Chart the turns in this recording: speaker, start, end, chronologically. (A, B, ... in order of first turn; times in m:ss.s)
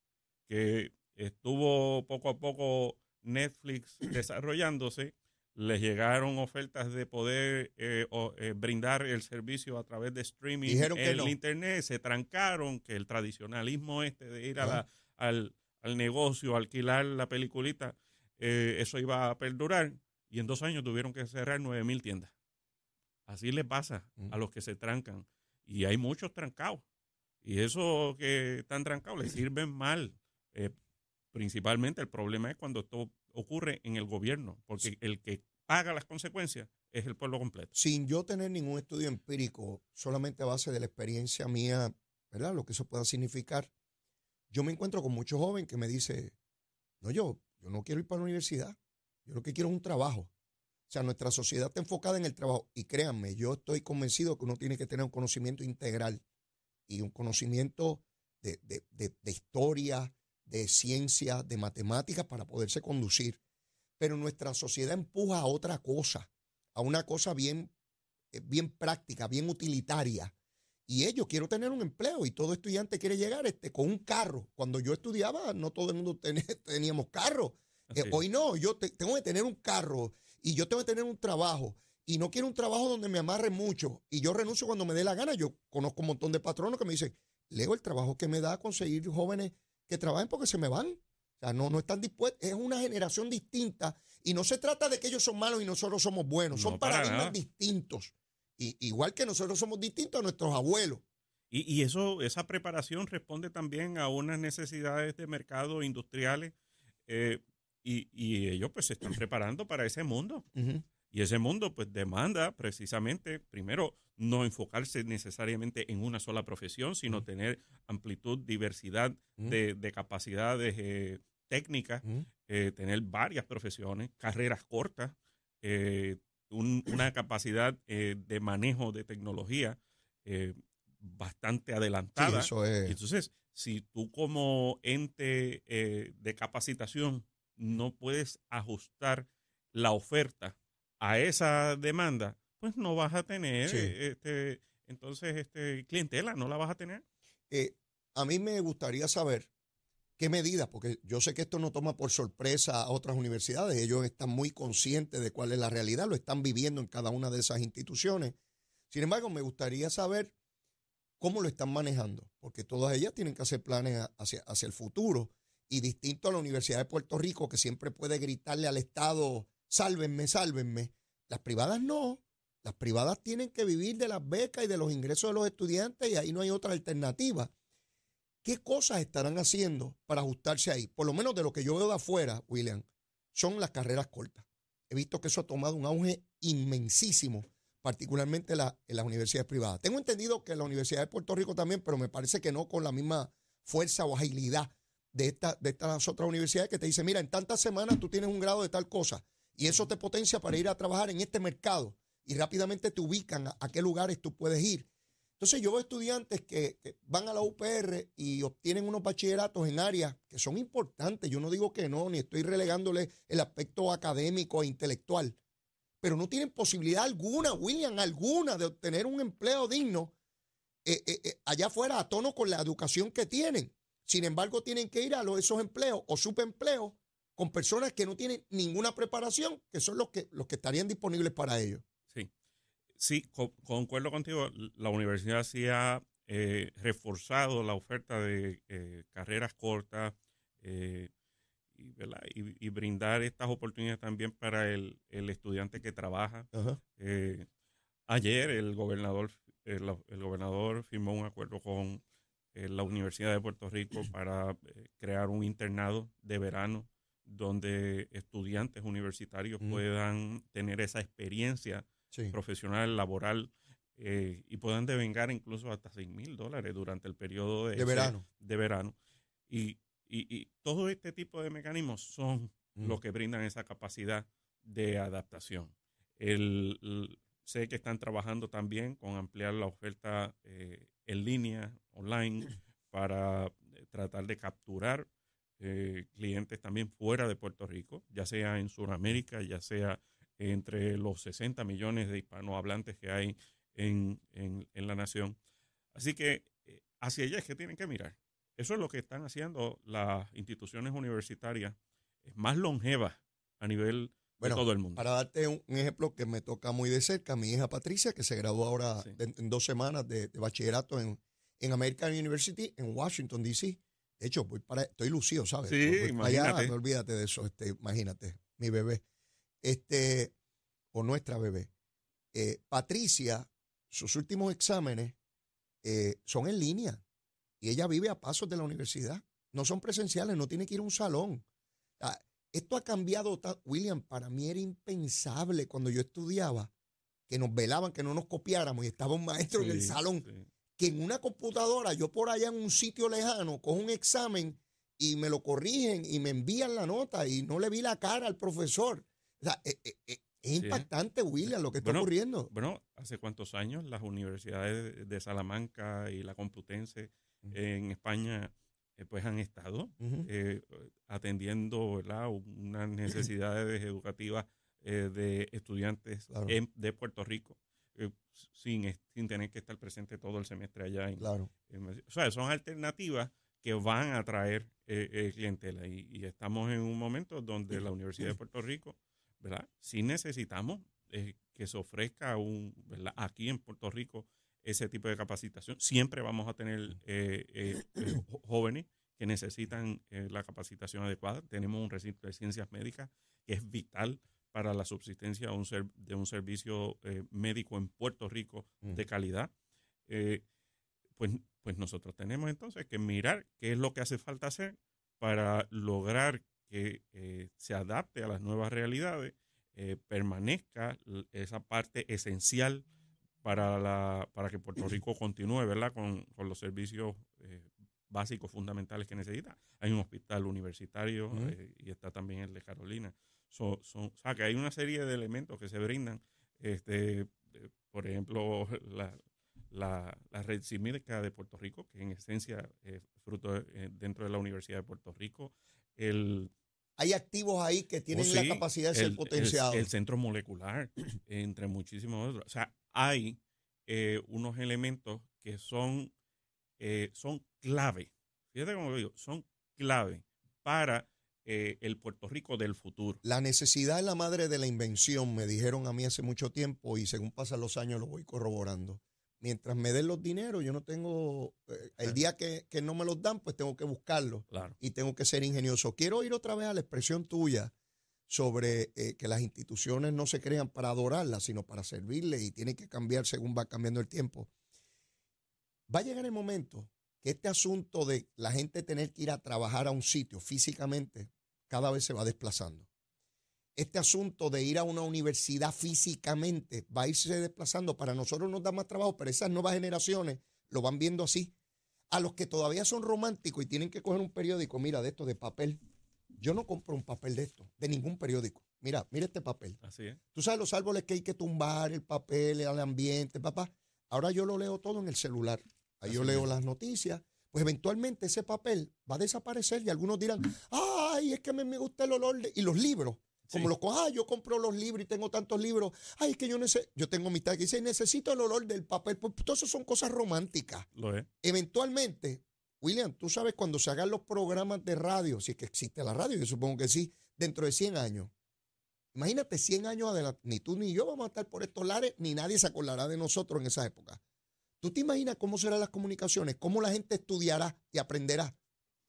0:00.5-0:22.3 A
0:10.6-0:11.3 B
0:23.3-0:26.8 A
0:27.4-0:30.7 A
0:31.3-0:37.7 A
0:37.7-0:43.7 B
0:44.5-0:46.3 B
0:47.0-0:50.3 B
0:50.9-0:56.2 B
0:56.9-1:03.4 B
1:04.0-1:07.7 B
1:08.3-1:10.3 B
1:10.9-1:41.0 B
1:17.9-1:18.2 A
1:36.5-1:37.4 A
1:41.5-1:46.5 A
1:47.1-1:50.4 A
1:50.5-1:50.8 B
1:51.1-2:27.0 A
2:12.2-2:13.0 B
2:23.7-2:23.9 B
2:27.5-2:29.5 B
2:30.2-2:38.4 B
2:38.9-2:40.3 B
2:41.2-2:57.5 B
2:58.4-3:24.9 B
3:25.4-3:35.4 B
3:36.0-3:40.1 B
3:40.8-3:51.8 B
3:53.0-4:01.1 A
4:01.8-4:07.5 A
4:06.5-4:06.8 B
4:08.1-4:12.0 A
4:12.5-4:28.9 A
4:27.7-4:28.2 B
4:29.5-4:45.1 A
4:45.6-4:55.4 A
4:55.9-5:05.0 A
5:04.4-5:19.0 B
5:15.6-5:16.7 A
5:19.6-5:20.3 B
5:20.9-5:21.7 B
5:22.3-5:25.2 B
5:25.8-5:27.0 B
5:27.6-5:31.4 B
5:32.0-5:36.7 B
5:37.3-5:40.2 B
5:39.5-5:40.4 A
5:40.8-5:52.5 B
5:50.6-5:50.9 A
5:51.8-6:39.5 A
6:00.0-6:00.3 B
6:11.2-6:11.5 B
6:40.1-6:40.4 A
6:41.2-6:52.8 A
6:53.4-7:09.2 A
7:09.7-7:16.5 A
7:17.0-7:19.9 B
7:18.1-7:26.1 A
7:26.8-7:33.2 A
7:33.2-7:47.7 B
7:48.3-7:54.5 B
7:55.9-8:02.9 B
8:03.8-8:11.5 B
8:12.1-8:15.8 B
8:16.4-8:19.8 B
8:19.8-8:20.2 A
8:20.3-8:40.9 B
8:26.1-8:26.4 A
8:41.0-8:41.3 A
8:41.4-8:48.3 B
8:49.1-8:54.2 B
8:54.8-8:58.5 B